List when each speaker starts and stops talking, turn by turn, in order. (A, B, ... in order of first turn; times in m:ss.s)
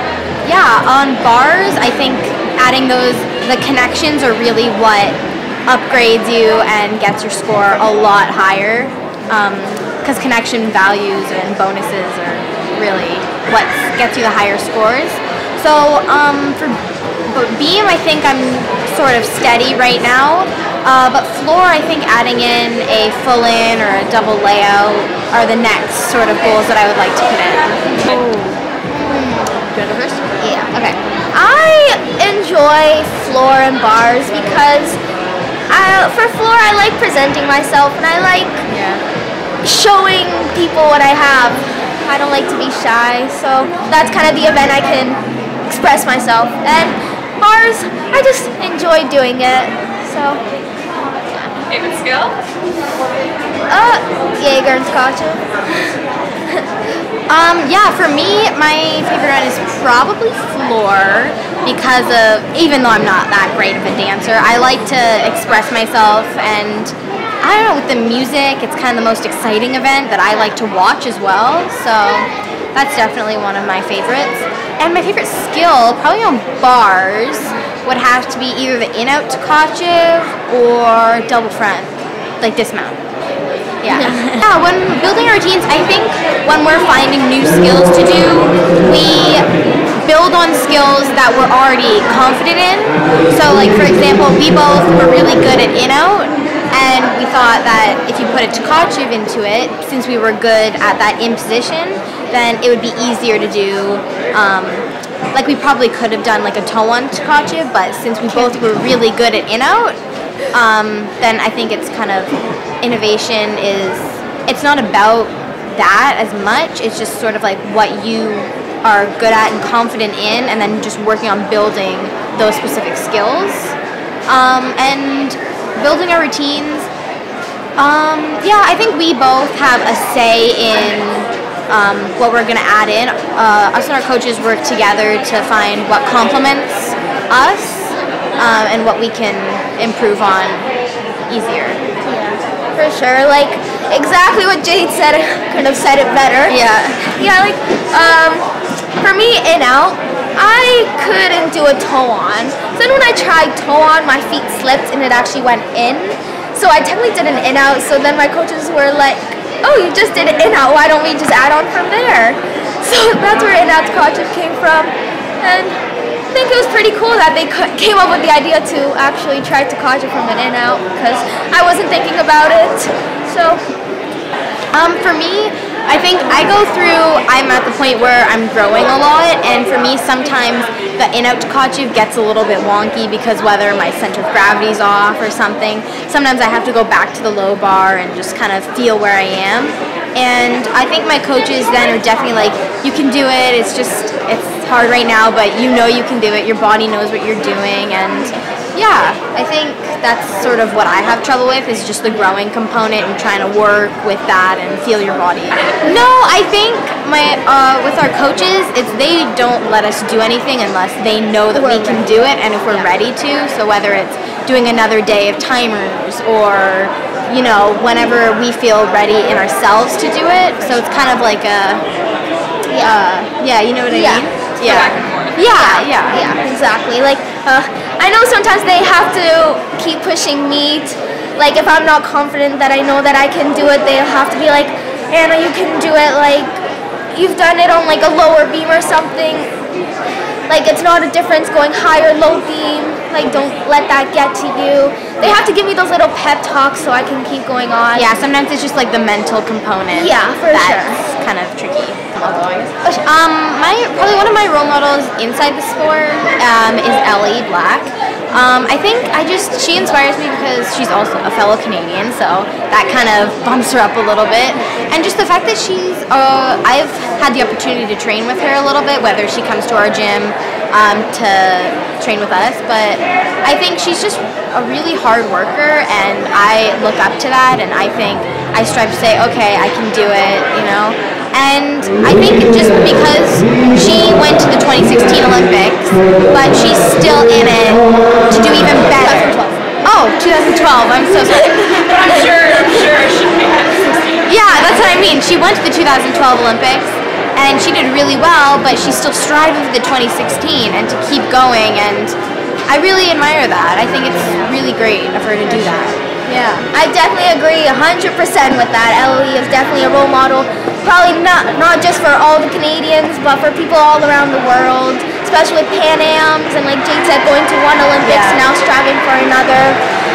0:00.4-0:31.0 A
0:30.4-0:30.7 B
0:31.3-0:35.0 B
0:35.7-0:38.6 B
0:38.7-0:39.0 A
0:39.6-0:50.4 B
0:51.7-0:52.4 C
0:53.7-0:55.5 B
0:57.3-1:23.0 A
1:23.8-1:50.0 A
1:23.9-1:24.4 B
1:48.3-1:48.6 B
1:50.5-2:03.8 A
2:04.3-2:06.9 A
2:07.8-2:20.7 A
2:21.3-2:21.8 A
2:22.0-2:28.5 B
2:26.5-2:27.2 A
2:29.0-2:45.8 B
2:46.3-2:53.6 B
2:54.7-3:41.8 A
3:25.5-3:26.0 C
3:31.5-3:32.9 B
3:42.7-3:43.0 B
3:42.8-3:46.2 A
3:43.9-3:44.3 B
3:44.6-3:45.4 C
3:45.5-3:56.6 B
3:57.1-3:59.5 B
4:00.5-4:08.2 B
4:07.9-4:51.8 A
4:09.9-4:11.0 B
4:48.9-4:49.7 B
4:51.3-4:52.9 B
4:51.6-4:54.3 C
4:54.3-5:02.2 A
5:02.7-5:06.7 A
5:04.2-5:04.5 B
5:05.5-5:05.9 B
5:06.7-5:19.8 B
5:18.0-5:18.4 A